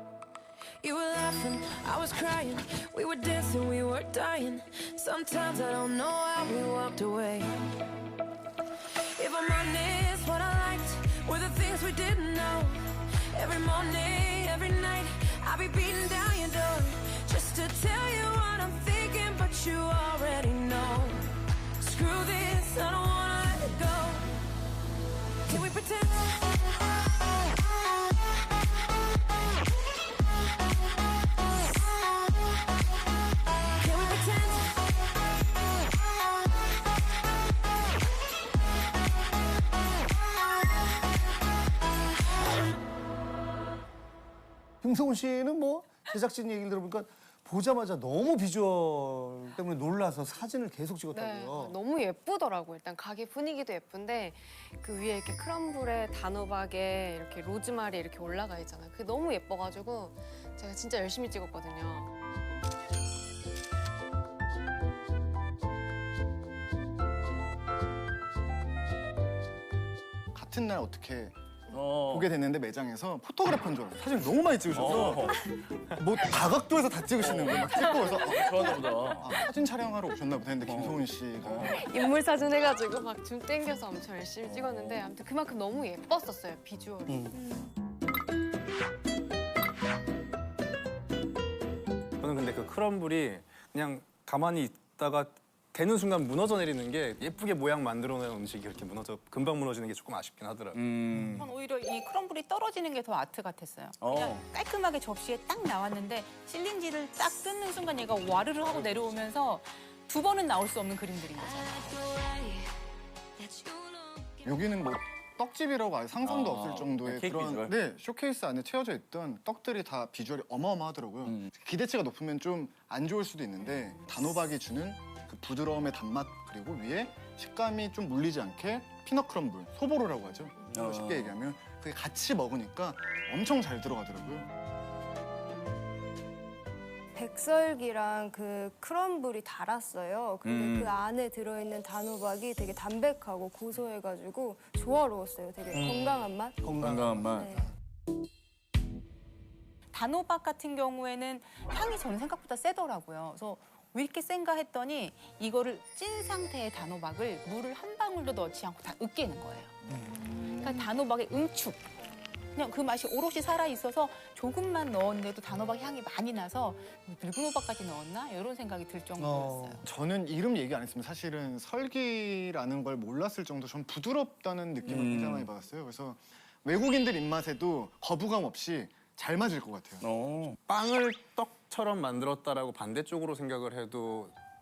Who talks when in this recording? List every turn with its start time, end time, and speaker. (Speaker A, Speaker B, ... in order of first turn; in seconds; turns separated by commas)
Speaker A: 0.8-7.5, Speaker B: 2.7-3.5, Speaker B: 4.3-7.0, Speaker A: 9.2-12.8, Speaker B: 9.6-10.3, Speaker B: 10.9-13.0, Speaker A: 13.3-21.1, Speaker B: 14.8-15.4, Speaker B: 15.9-21.2, Speaker A: 21.8-24.1, Speaker B: 22.2-24.3, Speaker B: 25.5-26.4, Speaker A: 25.5-26.1, Speaker A: 33.9-34.5, Speaker B: 33.9-34.8, Speaker C: 44.8-51.8, Speaker D: 51.1-62.1, Speaker E: 70.3-71.4, Speaker F: 71.7-72.3, Speaker E: 72.0-75.3, Speaker F: 74.7-75.4, Speaker C: 76.0-77.3, Speaker E: 76.0-81.8, Speaker F: 77.2-79.4, Speaker F: 80.6-81.9, Speaker D: 81.7-87.6, Speaker F: 84.6-84.9, Speaker C: 87.1-87.4, Speaker G: 92.2-101.2, Speaker F: 100.7-101.5, Speaker B: 101.4-112.4, Speaker F: 104.0-104.5, Speaker A: 107.5-108.2, Speaker G: 108.7-109.0, Speaker A: 109.1-109.6, Speaker A: 110.1-111.2, Speaker E: 114.4-134.5, Speaker F: 116.2-117.8, Speaker F: 130.7-131.3, Speaker H: 137.2-146.7, Speaker F: 140.4-141.0, Speaker C: 145.7-147.3, Speaker F: 146.8-147.5, Speaker H: 147.2-147.7, Speaker A: 149.9-151.2, Speaker B: 150.4-159.7, Speaker A: 151.8-157.1, Speaker C: 159.9-160.8, Speaker B: 160.4-161.8, Speaker B: 162.5-169.8, Speaker C: 169.2-169.8, Speaker E: 169.8-180.1, Speaker F: 174.8-175.5, Speaker F: 180.0-180.6, Speaker G: 180.7-184.3